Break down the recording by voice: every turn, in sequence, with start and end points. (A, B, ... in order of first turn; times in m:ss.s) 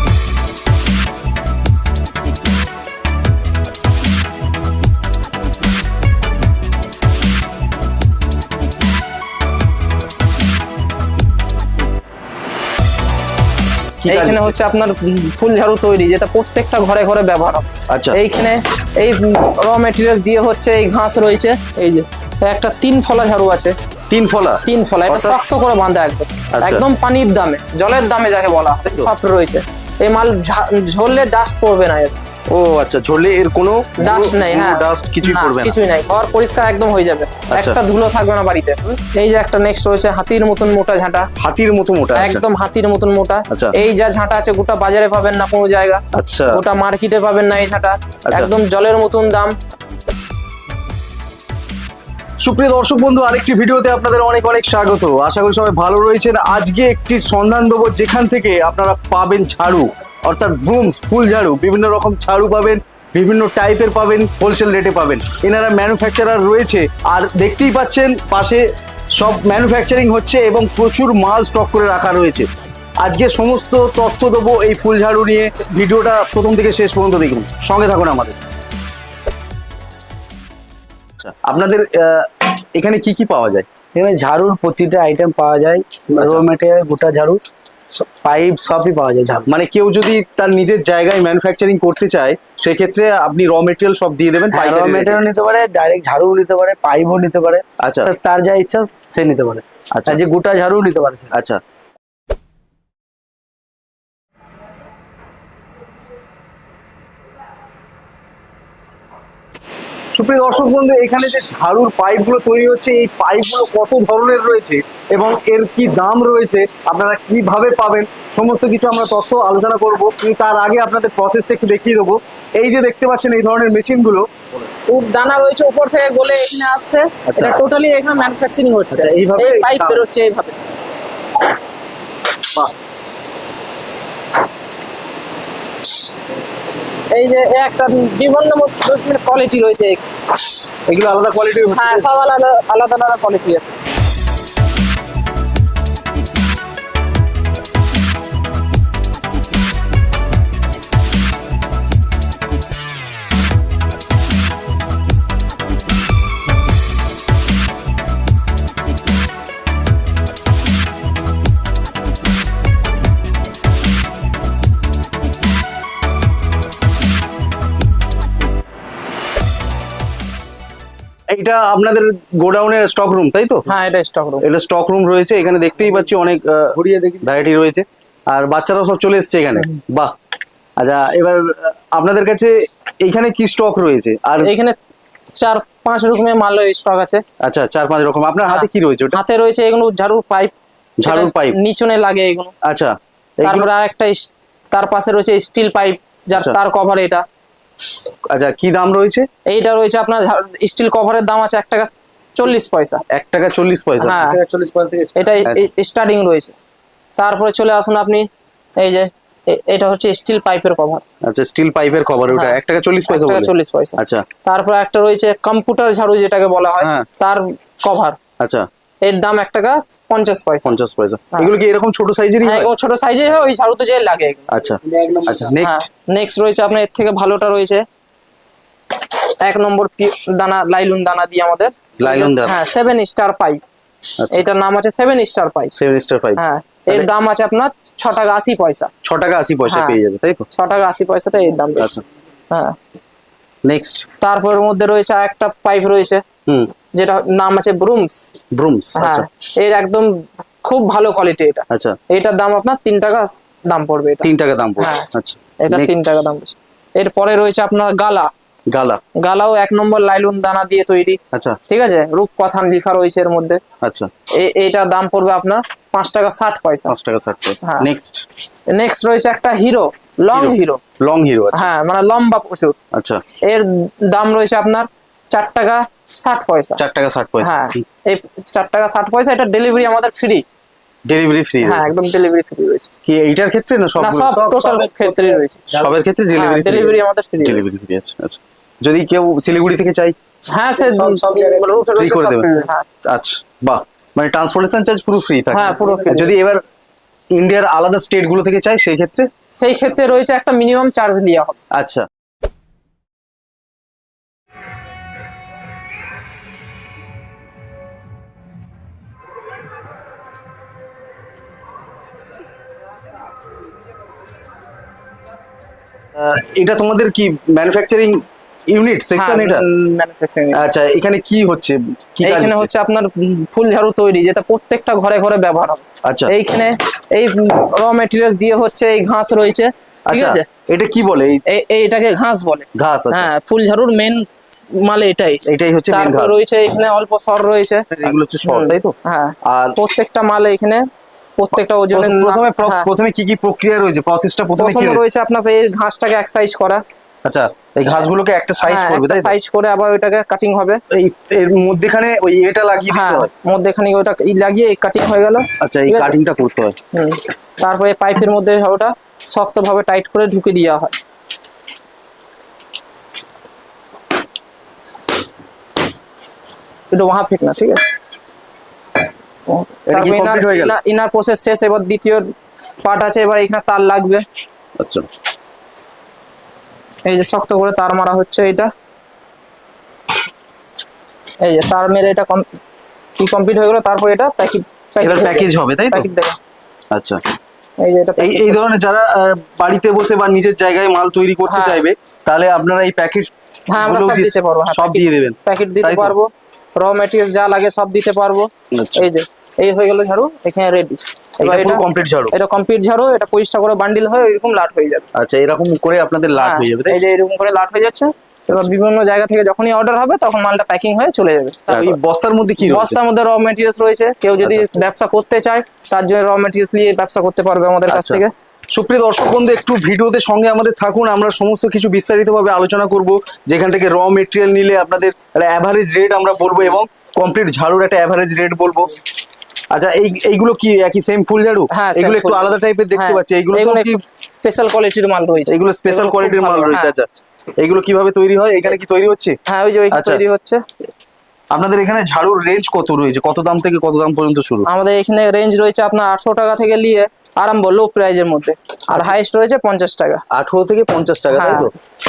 0:14.0-0:14.5 A
0:14.1-0:23.7 B
0:17.9-0:18.2 A
0:24.1-0:25.4 A
0:24.6-0:32.1 B
0:26.6-0:26.8 A
0:28.8-0:29.1 A
0:32.5-0:35.8 A
0:34.0-0:41.3 B
0:37.5-0:37.8 A
0:41.4-0:42.4 A
0:42.2-0:49.5 B
0:46.1-0:46.6 A
0:52.4-1:08.6 A
1:09.2-1:12.5 A
1:13.0-1:18.4 A
1:21.2-1:23.6 A
1:23.9-1:27.4 C
1:26.2-1:26.4 A
1:27.9-1:29.5 C
1:29.5-1:35.2 A
1:34.5-1:41.3 C
1:37.8-1:38.1 A
1:41.3-1:41.6 A
1:50.1-2:04.7 A
2:04.9-2:10.6 B
2:07.3-2:07.6 A
2:08.9-2:10.0 A
2:17.1-2:20.0 B
2:20.9-2:22.1 A
2:21.7-2:23.8 B
2:51.3-2:53.6 A
2:53.7-2:54.4 B
2:54.4-3:00.1 A
3:00.8-3:04.5 A
3:04.4-3:04.8 B
3:05.4-3:07.2 B
3:07.4-3:09.2 A
3:08.5-3:12.5 B
3:11.0-3:11.6 A
3:12.6-3:13.7 A
3:13.4-3:17.2 B
3:16.3-3:16.6 A
3:18.3-3:19.2 A
3:19.5-3:23.0 B
3:23.1-3:24.2 A
3:24.0-3:24.4 B
3:24.2-3:25.4 C
3:25.2-3:26.5 B
3:25.4-3:25.7 A
3:27.2-3:28.2 B
3:28.8-3:31.0 B
3:31.2-3:34.2 A
3:32.3-3:38.2 B
3:36.8-3:37.1 A
3:38.4-3:38.7 A
3:39.0-3:40.7 B
3:40.6-3:42.7 A
3:42.4-3:44.5 B
3:44.5-3:45.9 A
3:44.9-3:45.5 C
3:45.6-3:47.8 B
3:49.4-3:53.6 B
3:52.0-3:52.6 A
3:54.2-3:54.4 A
3:54.3-3:55.7 B
3:55.7-3:57.1 A
3:56.4-3:58.9 B
3:59.0-4:00.4 A
3:59.6-4:00.0 B
4:00.5-4:01.9 B
4:01.8-4:02.0 A
4:02.5-4:02.8 B
4:03.6-4:04.0 A
4:04.2-4:06.2 B
4:06.9-4:08.3 B
4:08.5-4:09.3 A
4:09.0-4:15.1 B
4:11.7-4:12.0 A
4:14.2-4:16.0 A
4:15.6-4:18.3 B
4:18.7-4:19.0 A
4:19.2-4:23.6 B
4:23.8-4:24.1 A
4:24.4-4:26.9 B
4:26.9-4:28.2 A
4:27.6-4:27.9 B
4:28.7-4:30.8 B
4:30.3-4:31.7 A
4:31.5-4:32.8 B
4:32.9-4:33.2 A
4:33.4-4:36.8 B
4:36.8-4:37.8 A
4:37.4-4:40.4 B
4:41.0-4:41.9 A
4:41.6-4:42.9 B
4:43.0-4:44.4 A
4:44.0-4:45.6 B
4:44.4-4:45.9 C
4:45.7-4:50.1 A
4:46.3-4:47.7 B
4:50.5-4:52.8 B
4:50.8-4:51.9 C
4:51.9-4:52.5 A
4:53.0-4:56.6 A
4:55.5-4:56.3 B
4:55.8-4:56.2 C
4:57.3-4:59.3 A
4:59.5-5:01.6 B
5:01.8-5:02.0 A
5:16.1-5:19.6 A
5:19.2-5:20.6 B
5:20.5-5:22.7 A
5:22.2-5:30.4 B
5:26.0-5:26.3 A
5:30.1-5:31.4 A
5:31.5-5:34.2 B
5:32.8-5:33.3 A
5:34.8-5:37.9 B
5:35.5-5:36.4 A
5:37.9-5:38.9 A
5:38.4-5:40.8 B
5:39.4-5:39.8 A
5:41.4-5:42.9 B
5:41.5-5:45.0 A
5:44.6-5:46.8 B
5:47.2-5:49.3 A
5:48.6-5:50.8 B
5:50.9-5:53.3 A
5:52.9-5:56.1 B
5:55.6-5:56.8 A
5:56.9-6:01.0 B
6:06.9-6:07.8 B
6:09.5-6:12.3 B
6:09.9-6:10.8 A
6:12.8-6:14.2 B
6:14.8-6:15.0 A
6:17.0-6:18.7 B
6:21.4-6:22.4 B
6:23.2-6:26.4 B
6:25.0-6:26.1 A
6:26.9-6:27.2 A
6:27.8-6:28.6 B
6:28.2-6:36.2 A
6:31.4-6:31.8 B
6:33.7-6:45.1 B
6:38.7-6:39.1 A
6:41.4-6:42.3 A
6:45.2-6:47.0 A
6:46.3-6:52.0 B
6:51.7-6:53.0 A
6:52.6-6:58.3 B
6:54.4-6:54.8 A
6:57.9-7:08.9 A
7:09.7-7:14.0 A
7:11.7-7:16.9 B
7:15.5-7:19.4 A
7:19.5-7:20.6 B
7:19.9-7:20.2 A
7:21.5-7:24.7 A
7:24.6-7:30.2 B
7:30.3-7:31.7 A
7:31.3-7:31.7 B